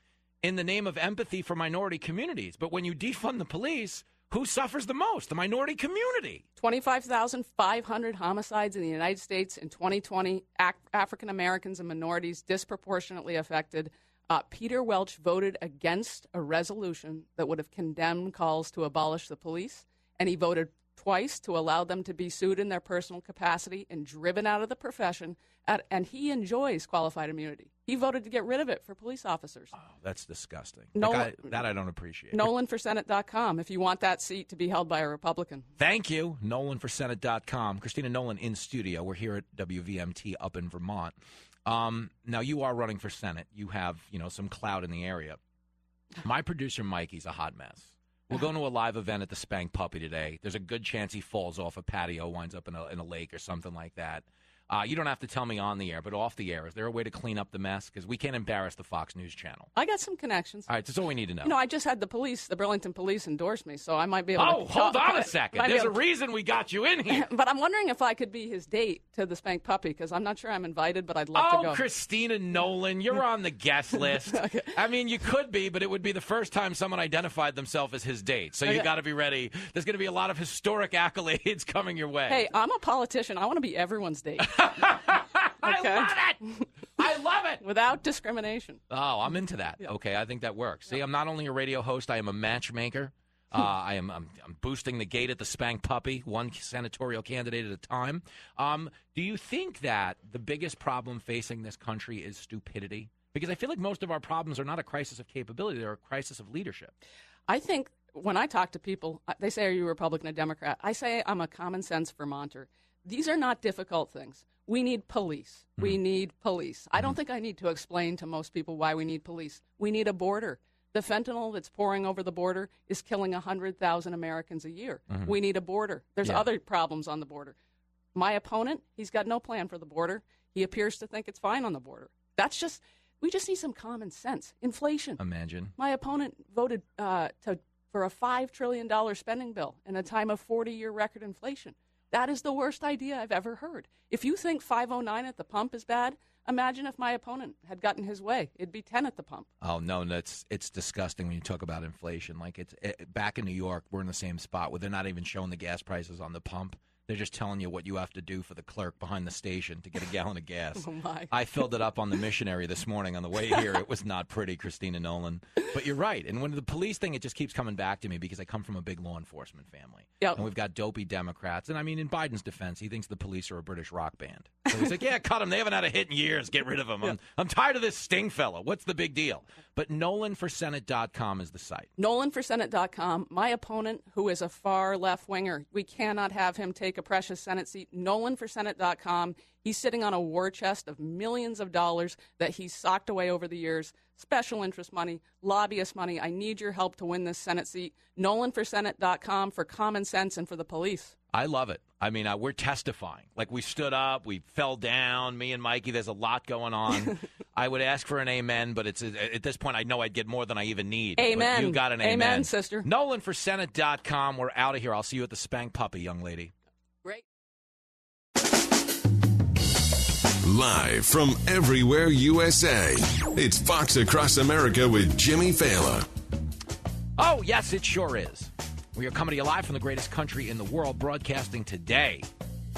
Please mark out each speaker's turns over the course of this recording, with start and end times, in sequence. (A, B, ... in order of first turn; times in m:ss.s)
0:00.4-0:06.4 A
0:06.6-0:29.7 B
0:29.7-0:32.5 A
0:30.9-0:31.6 B
0:32.3-0:35.7 B
0:35.8-0:45.4 A
0:46.2-0:59.7 A
0:59.7-1:00.7 B
1:00.7-1:01.5 A
1:01.4-1:06.0 B
1:04.4-1:07.3 A
1:07.1-1:11.8 B
1:11.3-1:22.4 A
1:13.9-1:14.7 B
1:18.6-1:18.9 B
1:22.3-1:24.5 B
1:24.4-1:26.4 A
1:25.6-1:26.6 B
1:27.0-1:27.6 A
1:27.6-1:28.8 B
1:28.9-1:46.9 A
1:47.5-2:07.6 B
2:05.1-2:05.3 A
2:08.1-2:15.2 B
2:15.2-2:15.7 A
2:15.8-2:29.5 B
2:29.6-3:01.9 A
2:40.8-2:41.3 B
2:50.2-2:50.4 B
2:54.7-2:55.0 B
3:02.0-3:21.1 B
3:21.3-3:36.5 A
3:26.9-3:27.2 B
3:31.2-3:32.8 B
3:40.4-3:46.1 C
3:47.2-3:52.3 A